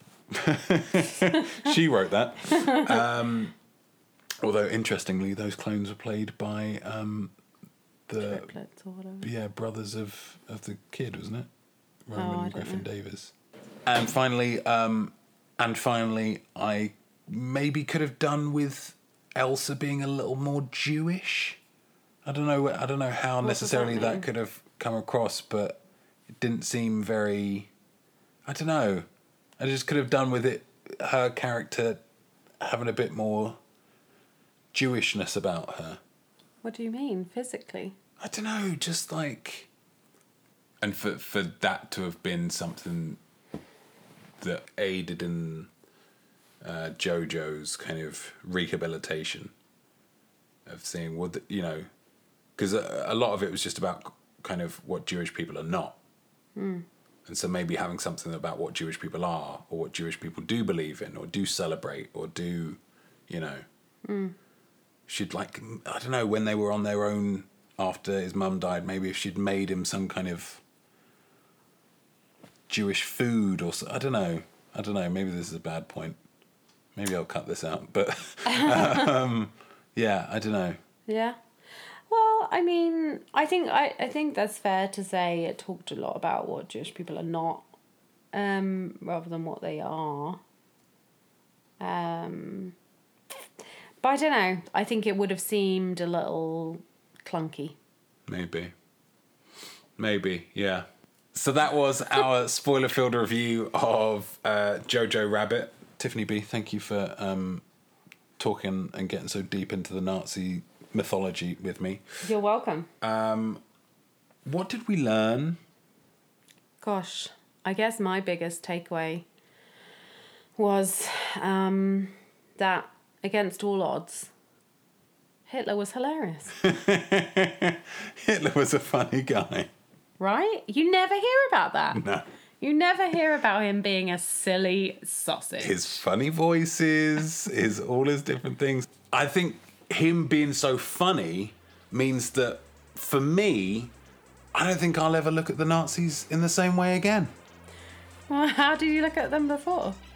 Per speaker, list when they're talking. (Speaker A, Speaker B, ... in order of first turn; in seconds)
Speaker A: 0.3-3.5, 4.4-7.3, 8.1-8.5, 9.2-11.5, 12.1-13.3, 13.9-21.6, 22.2-25.8, 26.3-27.7, 28.5-29.1, 29.6-32.0, 32.6-33.6, 34.7-36.0, 38.2-39.7, 40.8-43.2, 44.4-45.7, 46.6-49.5, 50.7-51.9, 52.6-56.0, 57.3-63.6, 65.1-70.6, 72.7-76.2, 76.9-80.8, 98.3-98.7, 100.0-107.6, 108.4-112.0, 113.0-113.6, 114.5-115.6, 126.6-129.7, 131.9-132.2, 135.6-143.9, 144.5-147.3
Speaker B: 1.2-1.7, 2.4-3.1, 8.2-9.3, 12.2-12.8, 23.4-24.3, 36.6-38.0, 56.6-56.9, 64.0-64.3, 78.5-79.1, 81.1-81.4, 82.1-87.7, 88.3-90.4, 91.8-92.8, 94.0-97.8, 112.2-112.9, 116.8-119.3, 120.6-124.3, 125.5-126.6, 130.2-132.1, 132.6-136.0, 148.3-150.0